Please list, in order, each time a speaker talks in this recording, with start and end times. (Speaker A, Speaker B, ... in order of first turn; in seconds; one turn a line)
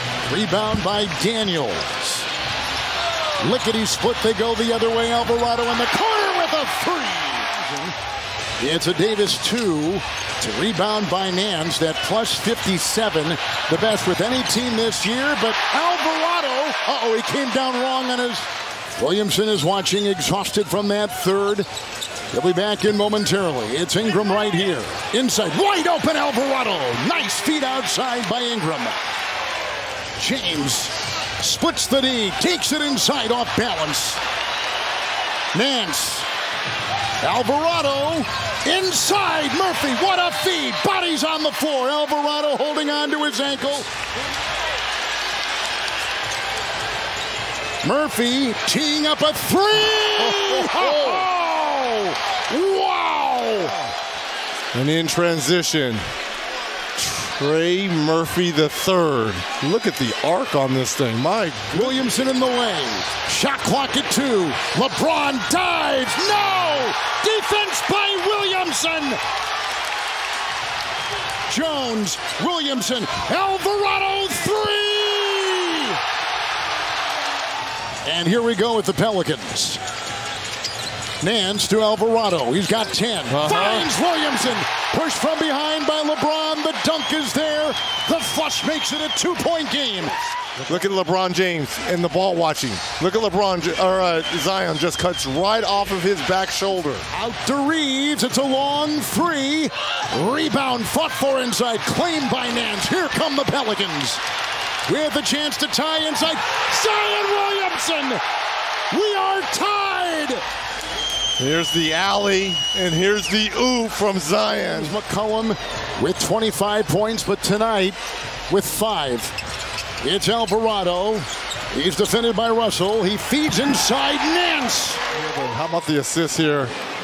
Speaker A: 0.3-2.3
Speaker A: 3.4-8.0
Speaker A: 8.6-18.5
Speaker A: 19.0-21.7
Speaker A: 22.3-29.0
Speaker A: 30.2-34.2
Speaker A: 35.5-36.3
Speaker A: 37.2-43.9
Speaker A: 47.8-53.8
Speaker B: 54.7-56.0
Speaker B: 57.0-61.9
Speaker A: 61.7-69.2
Speaker A: 71.5-76.0
Speaker A: 78.0-79.8
Speaker A: 81.2-90.2
Speaker B: 83.3-83.9
Speaker B: 90.6-97.1
Speaker A: 97.1-104.2
Speaker A: 104.9-108.2
Speaker A: 108.9-110.4
Speaker B: 111.4-114.9
Speaker A: 114.6-118.0
Speaker A: 118.5-119.3
Speaker A: 120.0-125.0
Speaker B: 125.1-126.7